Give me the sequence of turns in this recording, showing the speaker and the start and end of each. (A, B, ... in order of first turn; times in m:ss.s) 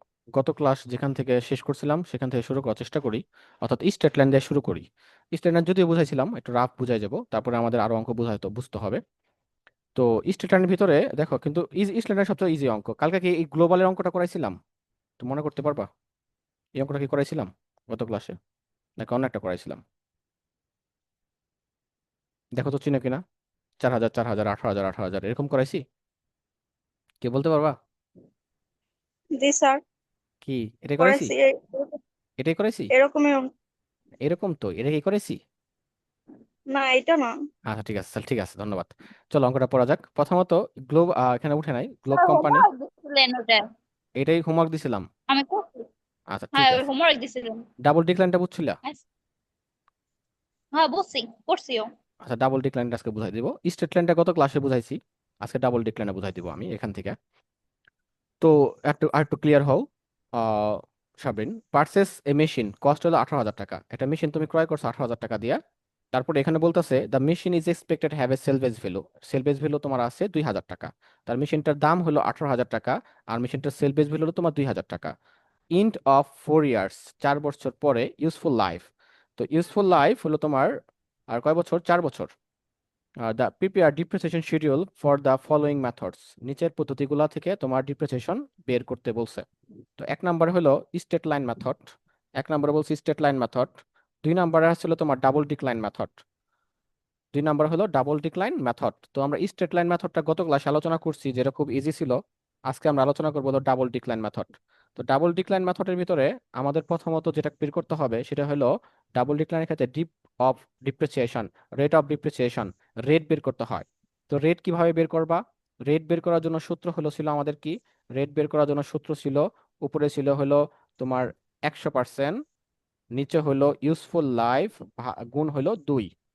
0:00.3-0:09.0 A
0:10.0-0:14.6 A
0:15.2-0:15.9 A
0:16.8-0:18.4 A
0:19.0-0:19.8 A
0:22.6-0:23.2 A
0:23.8-0:25.8 A
0:27.2-0:27.8 A
0:29.4-0:29.8 B
0:30.4-0:31.3 A
0:31.0-0:32.0 B
0:32.4-0:32.9 A
0:32.9-0:33.5 B
0:34.2-0:35.4 A
0:36.7-0:37.3 B
0:37.7-0:42.7 A
0:42.1-0:43.6 C
0:44.2-0:45.0 A
0:45.3-0:45.6 C
0:46.3-0:46.9 A
0:46.5-0:47.6 C
0:47.8-0:48.8 A
0:50.7-0:51.9 C
0:52.2-0:57.2 A
0:58.4-0:59.8 A
1:00.4-1:05.6 A
1:06.1-1:15.1 A
1:15.7-1:20.8 A
1:21.3-1:22.3 A
1:23.2-1:29.4 A
1:30.0-1:36.2 A
1:37.3-1:42.2 A
1:42.7-2:02.4 A
2:03.2-2:06.1 A